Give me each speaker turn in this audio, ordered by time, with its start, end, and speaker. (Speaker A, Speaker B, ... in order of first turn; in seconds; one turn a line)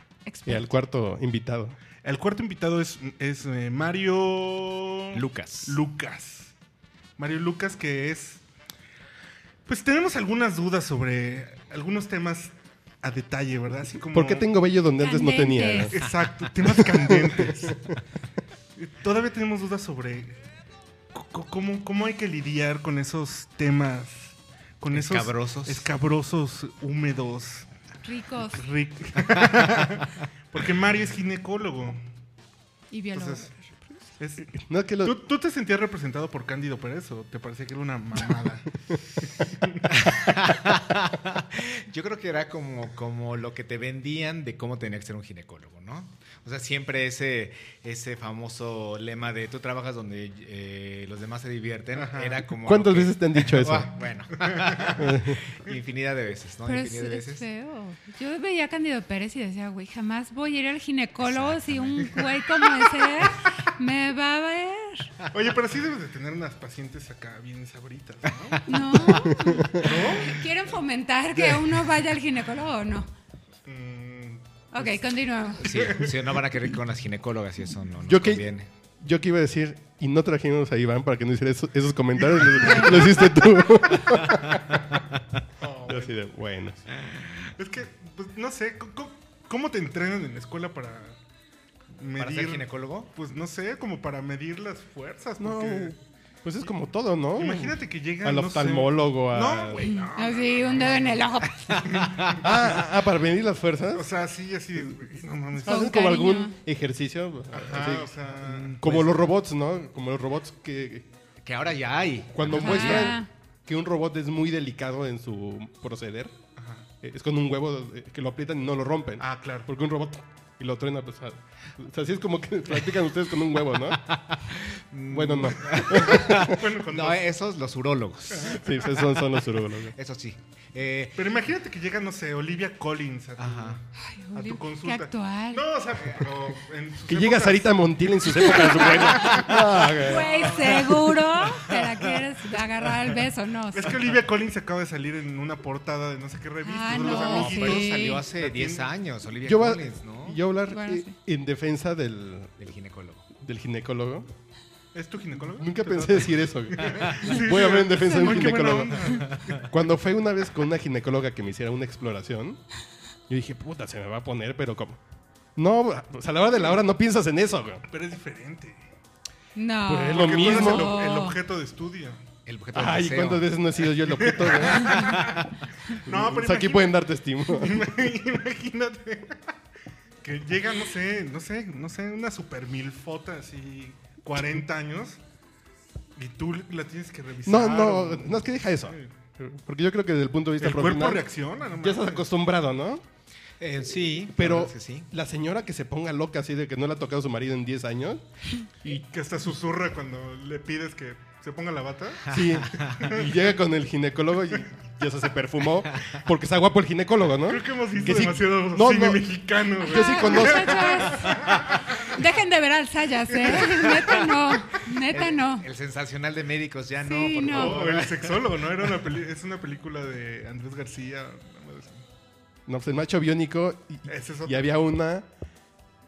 Speaker A: 0.3-0.7
Speaker B: 0.5-1.8
Speaker C: 2.0-6.5
Speaker D: 5.1-5.8
Speaker C: 7.2-8.4
Speaker C: 9.7-14.5
Speaker B: 14.1-15.9
Speaker A: 15.0-15.9
Speaker C: 15.9-17.8
Speaker B: 16.6-17.8
Speaker C: 18.8-20.4
Speaker C: 21.1-27.7
Speaker D: 24.9-25.9
Speaker A: 28.0-28.6
Speaker C: 28.6-32.0
Speaker D: 29.2-29.8
Speaker A: 32.9-33.9
Speaker C: 33.1-33.5
Speaker C: 34.2-34.5
Speaker B: 34.4-35.2
Speaker C: 35.0-38.7
Speaker C: 39.2-39.8
Speaker D: 39.9-57.4
Speaker C: 52.1-52.4
Speaker B: 52.6-53.9
Speaker C: 54.4-55.0
Speaker B: 55.0-55.4
Speaker A: 56.7-65.1
Speaker D: 61.2-62.3
Speaker C: 65.3-70.5
Speaker D: 68.5-69.3
Speaker A: 68.7-73.1
Speaker B: 69.3-69.9
Speaker C: 73.7-74.5
Speaker A: 74.7-75.7
Speaker D: 75.6-78.7
Speaker C: 75.7-76.4
Speaker B: 78.1-78.5
Speaker B: 79.0-85.0
Speaker C: 82.3-83.0
Speaker A: 82.6-83.3
Speaker C: 85.6-86.2
Speaker B: 85.9-86.8
Speaker C: 87.6-91.2
Speaker C: 92.0-96.0
Speaker D: 92.2-93.1
Speaker B: 95.4-99.9
Speaker C: 97.4-101.3
Speaker A: 99.8-102.0
Speaker D: 101.7-102.4
Speaker C: 101.9-102.8
Speaker B: 102.3-104.1
Speaker C: 103.9-105.9
Speaker B: 105.5-108.1
Speaker A: 105.6-106.6
Speaker C: 107.5-108.8
Speaker D: 108.4-109.2
Speaker B: 108.8-111.1
Speaker D: 111.4-113.2
Speaker B: 112.3-116.4
Speaker A: 112.5-113.3
Speaker C: 116.6-116.9
Speaker B: 117.0-124.0
Speaker C: 119.2-119.7
Speaker D: 123.8-128.8
Speaker B: 125.1-126.7
Speaker C: 125.5-127.3
Speaker C: 128.4-128.7
Speaker B: 128.5-129.9
Speaker D: 129.7-131.2
Speaker C: 131.2-137.9
Speaker D: 133.4-133.8
Speaker A: 134.0-135.7
Speaker B: 137.1-140.4
Speaker A: 138.4-144.0
Speaker C: 138.5-139.5
Speaker D: 140.3-141.1
Speaker C: 143.7-148.9
Speaker A: 146.6-148.2
Speaker D: 146.9-150.4
Speaker B: 149.4-152.5
Speaker A: 150.7-151.1
Speaker D: 152.6-153.3
Speaker B: 153.3-154.3
Speaker C: 154.9-159.6
Speaker B: 155.5-162.6
Speaker D: 159.3-159.6
Speaker B: 163.3-165.0
Speaker B: 165.6-167.8
Speaker C: 167.9-168.9
Speaker A: 169.5-171.4
Speaker B: 169.8-171.0
Speaker C: 170.1-172.2
Speaker D: 172.4-173.5
Speaker B: 172.7-175.4
Speaker C: 174.2-179.4
Speaker B: 176.1-177.9
Speaker C: 180.2-185.2
Speaker C: 186.2-189.1
Speaker B: 187.4-193.0
Speaker C: 190.6-192.3
Speaker D: 193.6-195.1
Speaker B: 194.3-198.2
Speaker C: 198.8-203.4
Speaker B: 202.3-210.9
Speaker D: 202.3-203.1
Speaker C: 207.4-212.3
Speaker A: 209.9-215.7
Speaker C: 213.3-214.2
Speaker D: 214.8-218.5
Speaker A: 217.0-217.8
Speaker C: 217.4-222.0
Speaker B: 222.7-225.3
Speaker C: 224.1-224.7